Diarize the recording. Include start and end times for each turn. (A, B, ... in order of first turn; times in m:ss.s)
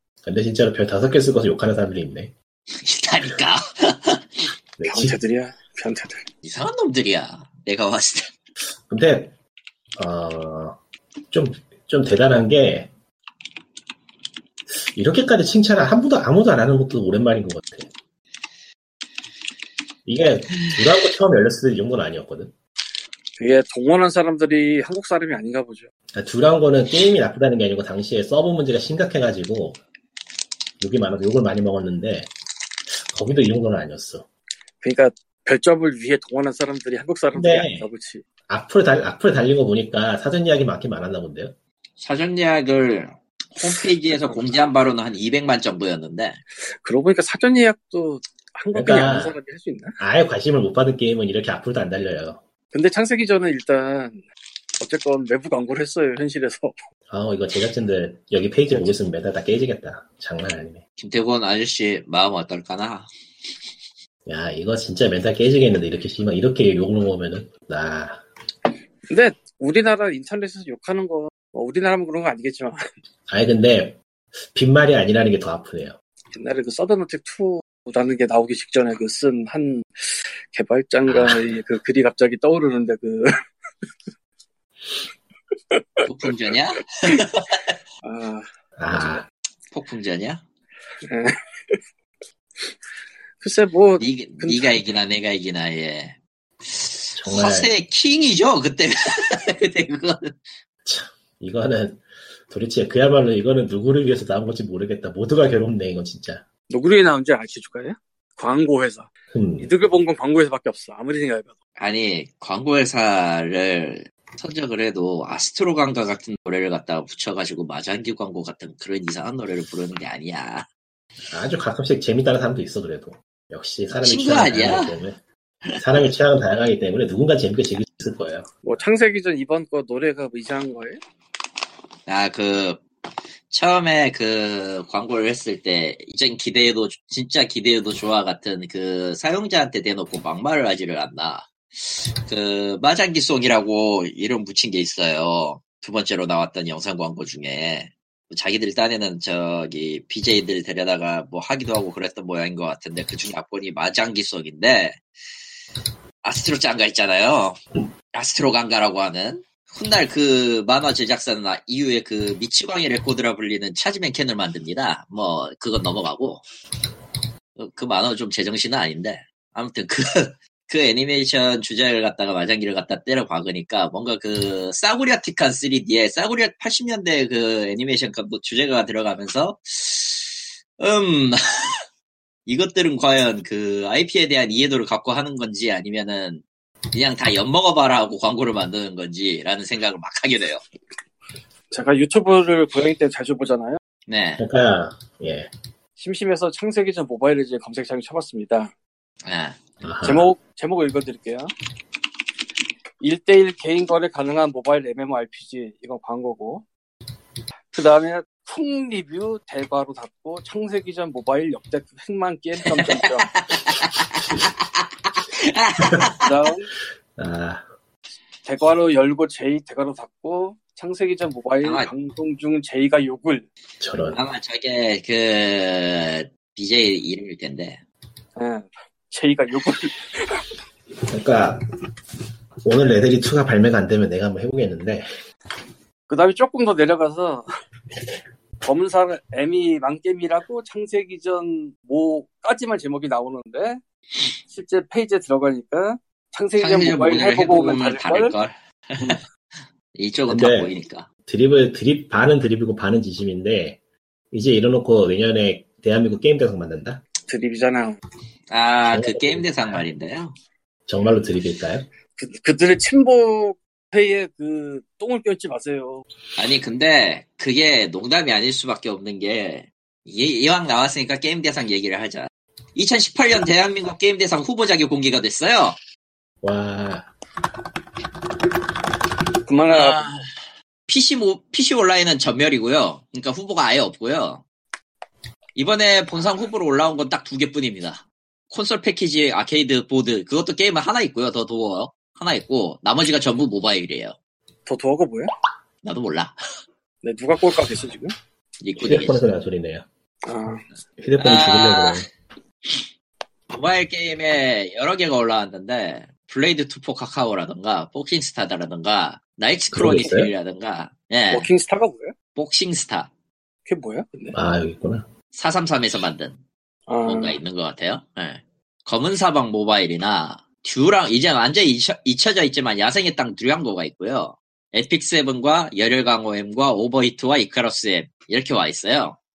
0:00.2-0:02.3 A
0:02.8-0:04.3 B
0:04.8-0:05.2 A
0:04.9-0:06.2 C
0:06.4-0:08.3 B
0:08.9-0:09.4 A
0:10.0-0:10.8 A
0:11.3-0:12.9 A
0:14.7-0:17.9 A
0:20.1-0:22.5 A
0:23.4-0:25.9 C
0:26.1-0:29.8 A
0:30.8-0:32.3 A
0:32.9-0:34.3 A
0:34.8-0:38.2 C
0:37.3-0:37.9 A
0:38.5-0:41.6 A
0:42.0-0:46.4 B
0:46.6-0:50.0 C
0:48.7-0:49.4 A
0:50.0-0:52.4 A
0:52.7-0:54.2 C
0:54.8-0:56.8 C
0:57.1-1:00.8 A
1:01.0-1:03.1 B
1:04.3-1:08.2 A
1:09.1-1:12.8 C
1:13.3-1:14.0 A
1:14.5-1:16.0 A
1:16.3-1:23.3 C
1:21.1-1:21.6 A
1:25.7-1:26.1 C
1:26.0-1:27.8 B
1:28.0-1:28.4 C
1:28.8-1:29.3 A
1:28.9-1:29.2 B
1:29.7-1:30.4 B
1:31.0-1:31.8 C
1:33.4-1:34.8 C
1:34.0-1:40.4 B
1:37.2-1:37.7 A
1:40.8-1:46.5 A
1:46.7-1:49.1 C
1:49.3-1:49.7 A
1:49.6-1:51.5 C
1:51.8-2:00.7 B
2:01.3-2:05.2 A
2:04.0-2:05.0 B
2:05.8-2:08.6 A
2:08.6-2:11.0 C
2:12.1-2:12.8 B
2:13.5-2:35.0 B
2:36.2-2:46.4 B
2:47.6-3:01.4 B
3:02.5-3:10.6 B
3:11.7-3:13.8 C
3:14.1-3:14.4 B
3:14.4-3:15.5 A
3:16.0-3:18.7 C
3:19.2-3:19.7 B
3:19.8-3:20.3 A
3:20.0-3:21.5 C
3:23.0-3:26.6 C
3:27.7-3:33.4 C
3:32.6-3:36.3 B
3:36.2-3:36.7 C
3:37.2-3:37.6 A
3:38.4-3:43.5 C
3:41.6-3:41.9 B
3:43.8-3:44.2 A
3:44.1-3:47.8 B
3:48.4-3:50.5 C
3:51.1-3:51.6 A
3:52.6-3:55.1 A
3:56.1-3:57.5 C
3:58.6-4:03.8 C
4:04.5-4:08.4 C
4:06.6-4:11.1 B
4:10.3-4:10.7 A
4:11.3-4:13.8 A
4:14.3-4:17.0 A
4:17.2-4:18.0 C
4:18.5-4:20.4 B
4:18.9-4:19.8 A
4:20.9-4:21.9 A
4:22.2-4:26.0 C
4:26.4-4:35.8 B
4:36.4-4:37.1 A
4:39.5-4:40.1 C
4:39.7-4:44.4 B
4:45.6-4:54.2 B
4:54.7-4:55.3 C
4:55.8-4:56.4 B
4:57.0-4:58.2 C
4:58.6-4:59.2 B
4:58.8-4:59.8 A
5:00.2-5:00.6 C
5:01.0-5:02.1 A
5:01.2-5:02.0 B
5:03.5-5:11.5 B
5:09.7-5:10.3 A
5:11.3-5:12.2 C
5:12.4-5:13.1 B
5:13.7-5:14.4 C
5:14.3-5:15.1 A
5:15.3-5:16.4 B
5:16.9-5:17.4 C
5:17.0-5:29.2 B